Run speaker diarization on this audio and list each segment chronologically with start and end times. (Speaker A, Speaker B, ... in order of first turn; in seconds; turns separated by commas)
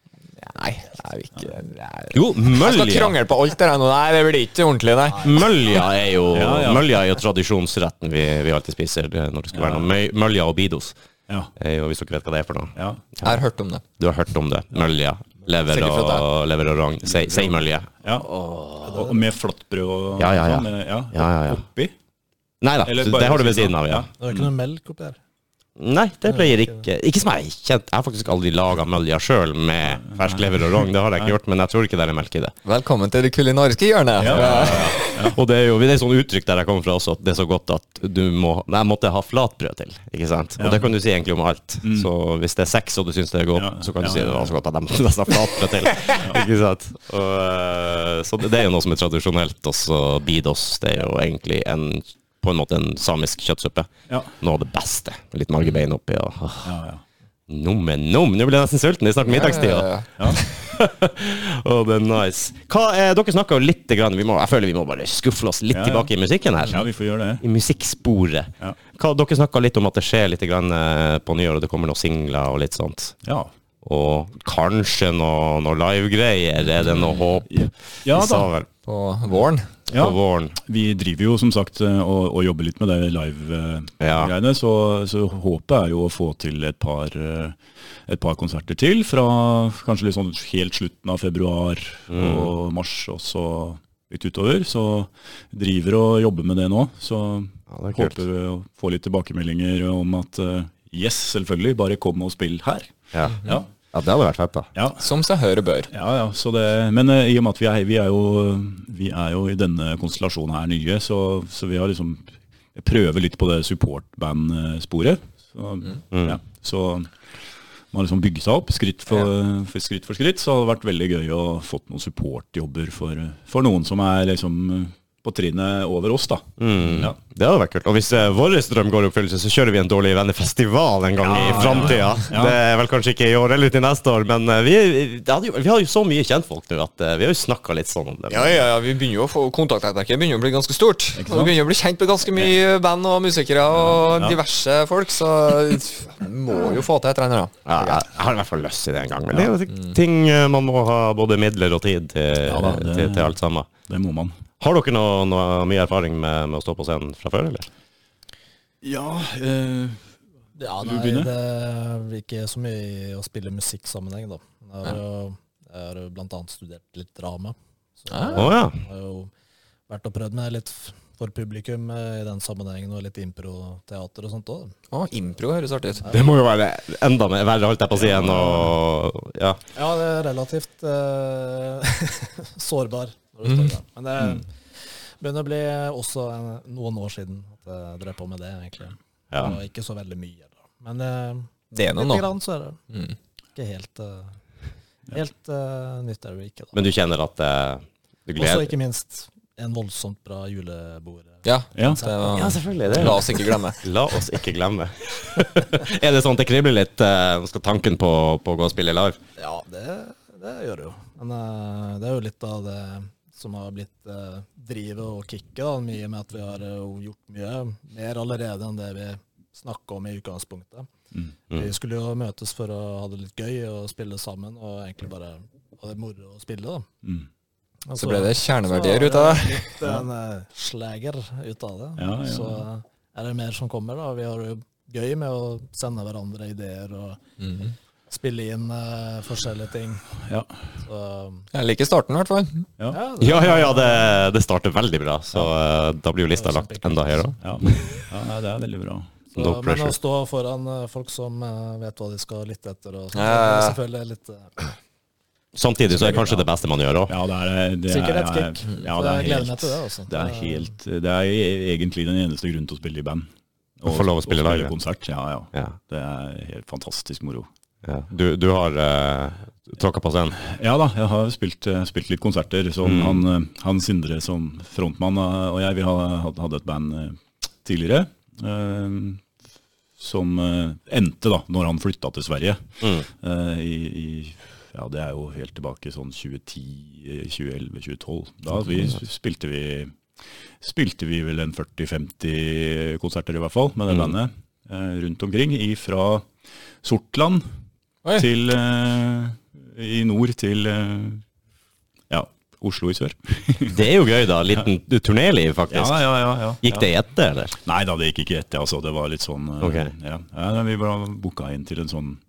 Speaker A: 0.4-5.4, Speaker B: 2.1-3.1, Speaker B: 5.2-10.9, Speaker C: 6.3-6.9, Speaker C: 9.5-9.9, Speaker B: 11.6-13.4, Speaker C: 12.8-13.0, Speaker A: 13.2-13.8, Speaker B: 14.0-19.1, Speaker A: 15.7-16.2, Speaker C: 17.1-18.3, Speaker D: 18.8-19.1, Speaker C: 18.9-21.9, Speaker B: 20.2-21.6, Speaker B: 22.6-24.1, Speaker C: 22.8-24.5, Speaker D: 24.2-25.2, Speaker B: 25.8-32.5, Speaker D: 26.3-26.8, Speaker C: 29.9-31.3, Speaker A: 32.6-35.0, Speaker C: 34.2-35.4, Speaker B: 34.2-56.7, Speaker C: 40.6-40.9, Speaker C: 41.8-42.1, Speaker C: 43.5-44.5, Speaker C: 46.2-46.4, Speaker C: 56.6-57.0, Speaker B: 57.5-66.9, Speaker A: 59.2-60.5, Speaker C: 65.7-66.1, Speaker C: 66.7-67.4, Speaker B: 67.4-73.2, Speaker C: 73.2-73.5, Speaker B: 73.8-78.7, Speaker C: 77.5-78.5, Speaker A: 78.8-79.7, Speaker C: 79.9-102.9, Speaker B: 79.9-80.6, Speaker B: 84.0-84.3, Speaker B: 92.1-92.5, Speaker B: 97.7-98.2, Speaker B: 103.1-104.7, Speaker C: 104.7-105.0, Speaker A: 105.0-105.9, Speaker C: 105.9-112.2, Speaker C: 112.7-117.1, Speaker B: 116.1-116.4, Speaker C: 117.9-127.2, Speaker B: 126.6-138.7, Speaker A: 131.2-132.2, Speaker C: 131.3-132.6, Speaker A: 138.3-148.0, Speaker C: 141.1-141.5, Speaker C: 144.1-144.4, Speaker B: 147.7-153.7, Speaker C: 152.4-153.3, Speaker C: 153.9-154.3, Speaker B: 154.6-157.7, Speaker C: 158.8-160.0, Speaker D: 160.6-169.3, Speaker C: 160.8-161.3, Speaker A: 168.1-168.5, Speaker B: 168.3-168.8, Speaker D: 169.9-174.7, Speaker A: 174.9-176.1, Speaker D: 176.0-176.3, Speaker B: 176.1-179.6, Speaker C: 177.9-178.7, Speaker D: 179.8-184.5, Speaker A: 183.4-183.7, Speaker D: 185.2-192.8, Speaker A: 191.7-192.2, Speaker D: 193.6-194.3, Speaker D: 195.1-196.8, Speaker B: 196.7-198.7, Speaker D: 198.4-202.5, Speaker A: 201.4-203.8, Speaker C: 201.8-202.0, Speaker B: 202.3-209.2, Speaker D: 209.4-220.9, Speaker D: 221.5-226.9, Speaker D: 227.8-240.1, Speaker A: 228.0-229.8, Speaker C: 232.0-232.6, Speaker A: 237.4-237.7, Speaker D: 240.8-241.5, Speaker A: 241.5-242.7, Speaker D: 242.9-244.1, Speaker B: 243.2-248.0, Speaker D: 246.3-247.3, Speaker C: 247.4-249.1, Speaker D: 249.3-254.5, Speaker B: 249.3-249.9, Speaker A: 253.1-253.8, Speaker B: 255.5-257.1, Speaker C: 256.0-256.4, Speaker C: 257.1-263.3, Speaker D: 257.9-260.7, Speaker C: 263.8-267.5, Speaker B: 263.9-264.7, Speaker B: 267.8-270.4, Speaker C: 270.4-279.2, Speaker B: 272.8-273.2, Speaker C: 280.0-289.9, Speaker C: 290.6-296.3, Speaker B: 293.9-294.1, Speaker C: 296.8-297.4, Speaker C: 298.1-301.2, Speaker C: 302.1-303.8, Speaker B: 303.7-306.1, Speaker C: 305.7-306.9, Speaker B: 306.6-307.6, Speaker C: 307.6-312.2, Speaker B: 309.6-309.9